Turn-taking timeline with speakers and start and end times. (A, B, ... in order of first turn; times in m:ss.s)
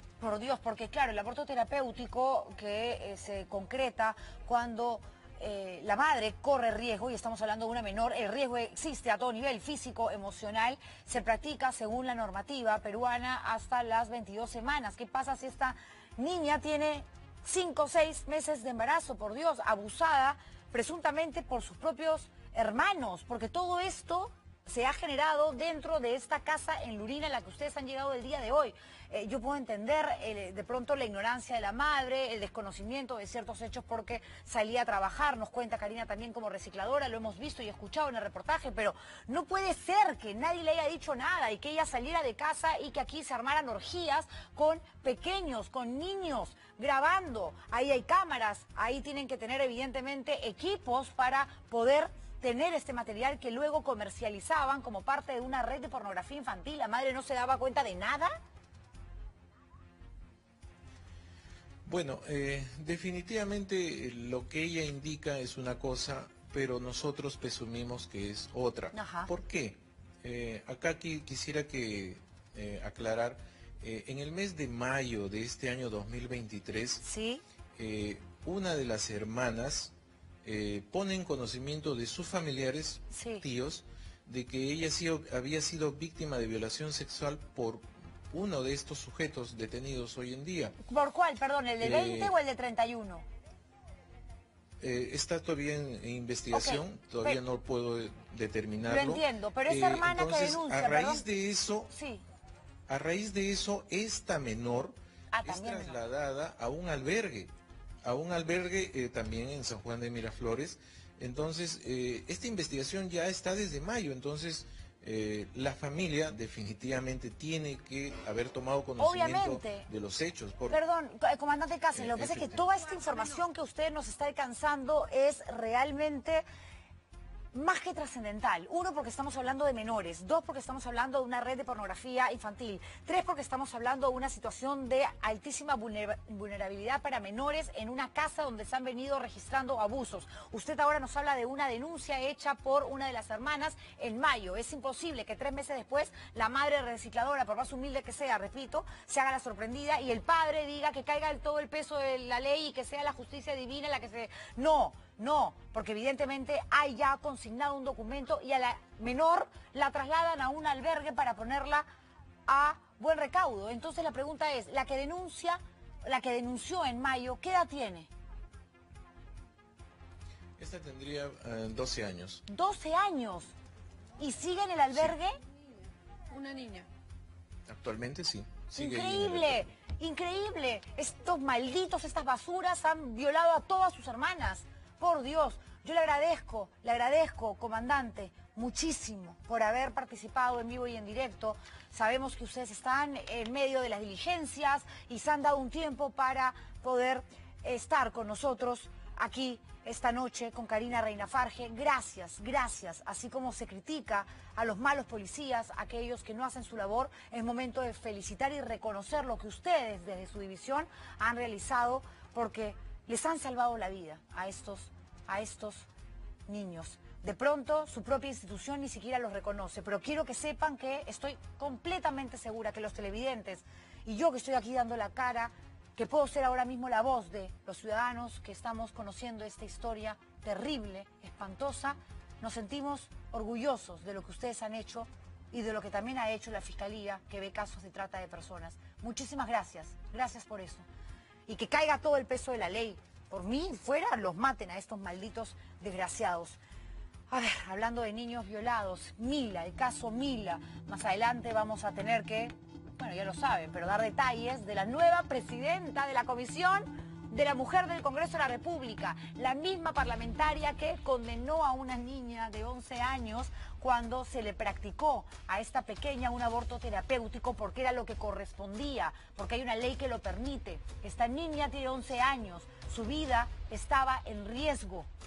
0:00.2-0:58.3 A
1:01.9-1:17.0 B
1:08.9-1:09.3 A
1:17.0-1:17.4 A
1:17.8-1:30.8 B
1:23.1-1:23.4 A
1:30.9-1:33.2 A
1:31.8-1:32.4 B
1:34.8-1:41.9 B
1:36.5-1:37.4 A
1:38.9-1:41.3 A
1:41.9-1:42.2 A
1:42.9-1:47.5 B
1:45.3-1:46.0 A
1:48.0-2:00.8 B
1:59.0-1:59.9 A
2:00.7-2:06.4 A
2:01.9-2:02.6 B
2:02.6-2:03.4 C
2:07.5-2:41.9 A
2:42.5-2:48.1 A
2:50.6-2:52.4 B
2:52.5-2:53.5 A
2:54.2-2:55.4 A
2:54.9-2:55.2 B
2:55.5-2:56.9 C
2:57.7-2:59.7 B
2:58.8-3:35.9 A
3:36.5-4:00.8 A
4:01.5-4:06.6 A
4:07.3-4:35.1 A